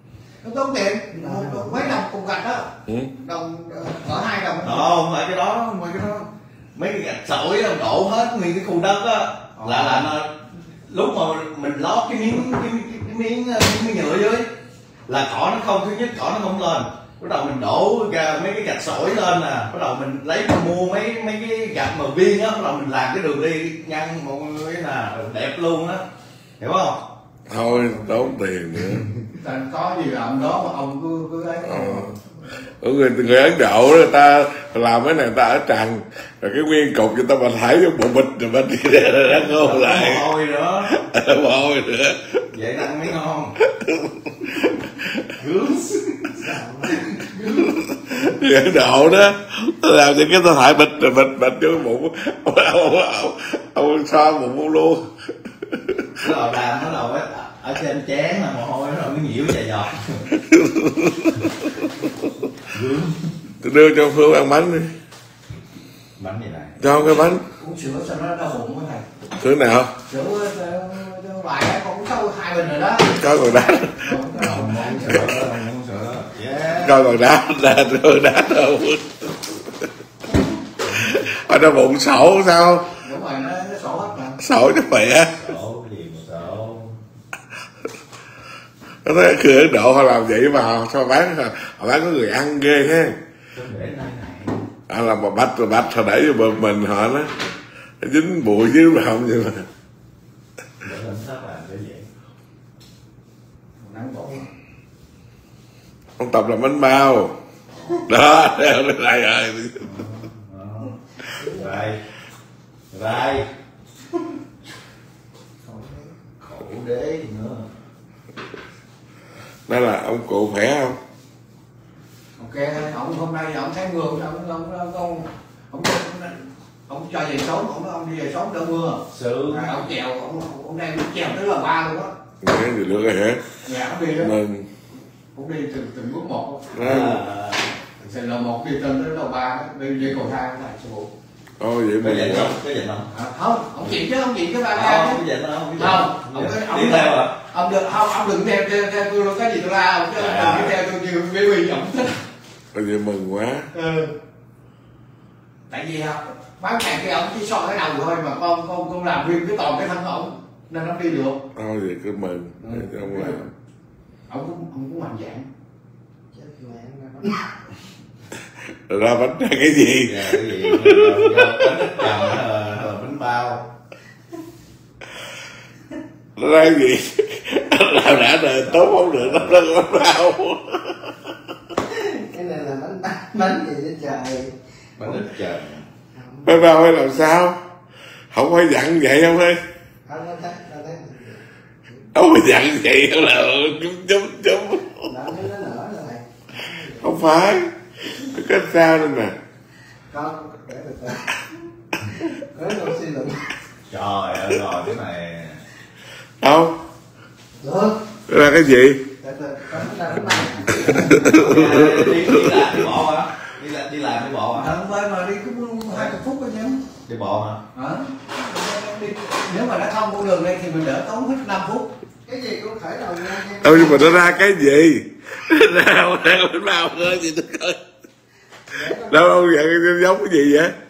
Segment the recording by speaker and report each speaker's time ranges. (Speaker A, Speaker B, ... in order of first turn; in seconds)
Speaker A: 0.4-2.7, 3.2-4.9, 9.6-10.1, 29.3-32.1, 67.6-69.0, 70.1-75.3, 83.0-84.4, 103.8-104.5, 122.4-132.1, 133.6-134.3, 135.3-136.7, 138.0-141.1, 143.1-145.2, 145.8-152.2, 153.7-154.1, 155.7-161.4, 162.6-163.4, 164.3-165.4, 214.5-216.8, 217.7-221.9
Speaker B: 1.1-1.9, 46.4-47.3, 111.3-111.9, 115.6-116.2, 166.3-167.5, 181.8-184.6, 186.1-186.6, 190.1-192.1, 195.1-197.2, 200.1-201.6, 202.1-203.4, 207.6-208.0, 209.2-211.5, 222.2-224.5, 228.7-229.3
Speaker C: 4.6-14.5, 15.1-26.0, 26.6-27.0, 39.3-41.0, 42.5-43.5, 45.4-46.4, 47.0-47.5, 56.2-60.3, 62.7-63.3, 66.2-66.8, 74.4-77.0, 85.3-87.0, 93.5-94.6, 100.8-102.1, 107.7-108.0, 109.8-112.0, 112.9-113.5, 116.4-117.7, 129.1-129.8, 136.8-137.7, 142.0-143.1, 144.7-147.3, 150.1-150.7, 170.0-173.7, 179.2-179.5, 185.0-185.9, 203.9-205.6, 211.3-214.7, 217.1-217.6
Speaker D: 27.5-29.1, 31.6-32.2, 32.8-40.2, 40.9-42.4, 43.6-45.3, 47.7-56.1, 60.3-61.9, 63.6-64.9, 66.8-67.4, 69.4-69.9, 73.1-74.2, 76.8-79.3, 81.0-82.9, 84.4-85.3, 89.0-93.2, 94.9-97.3, 98.0-99.7, 106.2-107.3, 107.9-109.9, 119.7-121.0, 132.4-133.4, 134.2-134.7, 136.7-137.2, 141.6-142.6, 152.7-153.7, 161.5-163.5, 168.9-172.1, 176.4-181.2, 186.4-187.6, 188.3-189.6, 192.1-195.1, 197.0-199.3, 206.4-206.8, 208.3-209.0, 210.8-212.7, 223.6-227.8, 229.1-230.7